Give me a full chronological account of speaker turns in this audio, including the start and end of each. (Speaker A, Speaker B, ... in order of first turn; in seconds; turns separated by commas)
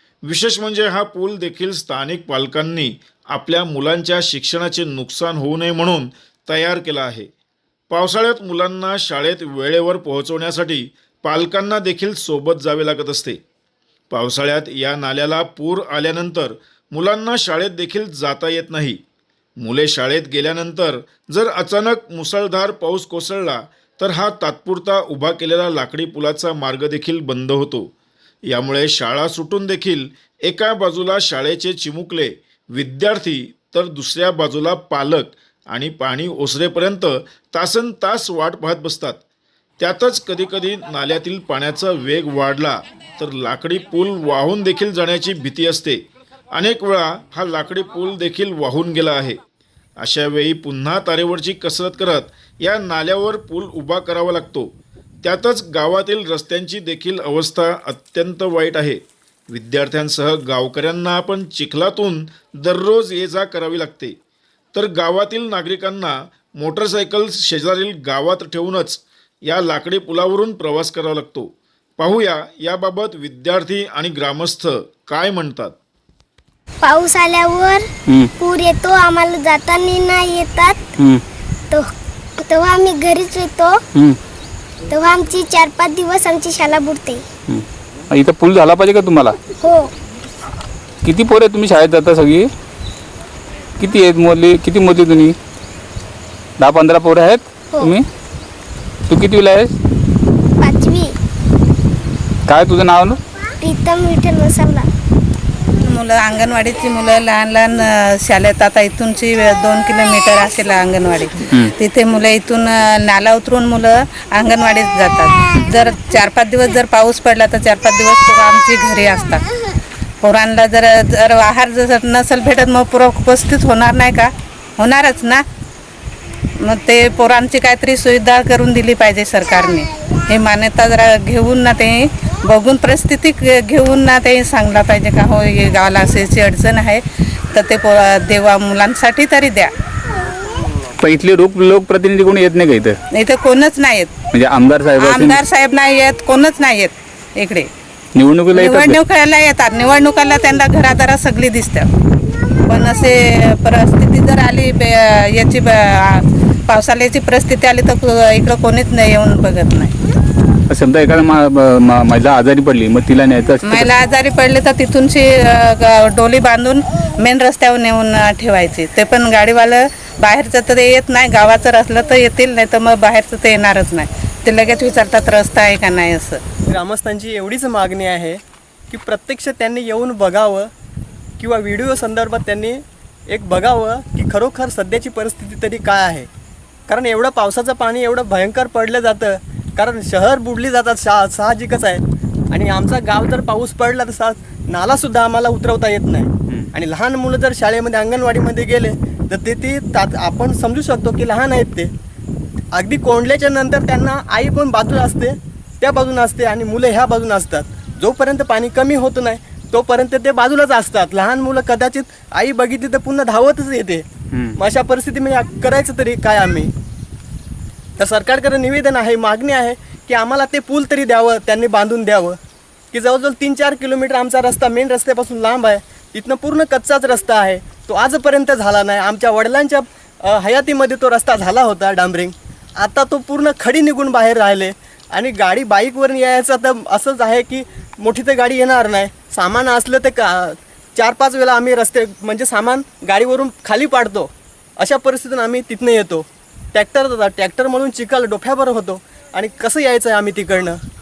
Speaker A: 0.3-7.3, Speaker A: 7.9-13.4, Speaker A: 14.1-19.0, Speaker A: 19.6-27.9, Speaker A: 28.5-39.2, Speaker A: 39.8-46.0, Speaker A: 46.5-49.4, Speaker A: 50.0-64.2, Speaker A: 64.7-75.8, Speaker B: 76.8-77.9, Speaker B: 78.4-80.8, Speaker B: 82.4-83.8, Speaker B: 84.9-87.2, Speaker C: 87.5-89.4, Speaker B: 89.6-89.9, Speaker C: 91.0-92.5, Speaker C: 93.8-95.4, Speaker C: 96.6-98.1, Speaker C: 99.1-99.8, Speaker B: 100.6-101.2, Speaker C: 102.5-103.2, Speaker B: 103.6-104.9, Speaker D: 105.8-119.4, Speaker D: 120.2-125.4, Speaker D: 126.6-139.7, Speaker C: 141.0-143.0, Speaker D: 143.1-144.1, Speaker C: 144.3-145.4, Speaker D: 145.0-147.7, Speaker C: 148.2-149.0, Speaker D: 148.5-151.9, Speaker D: 152.5-159.9, Speaker C: 160.7-163.9, Speaker D: 163.6-176.4, Speaker E: 176.7-180.7, Speaker E: 181.4-186.3, Speaker E: 186.9-201.9, Speaker E: 202.7-216.7, Speaker C: 214.3-214.6, Speaker E: 218.0-222.4, Speaker E: 222.9-250.8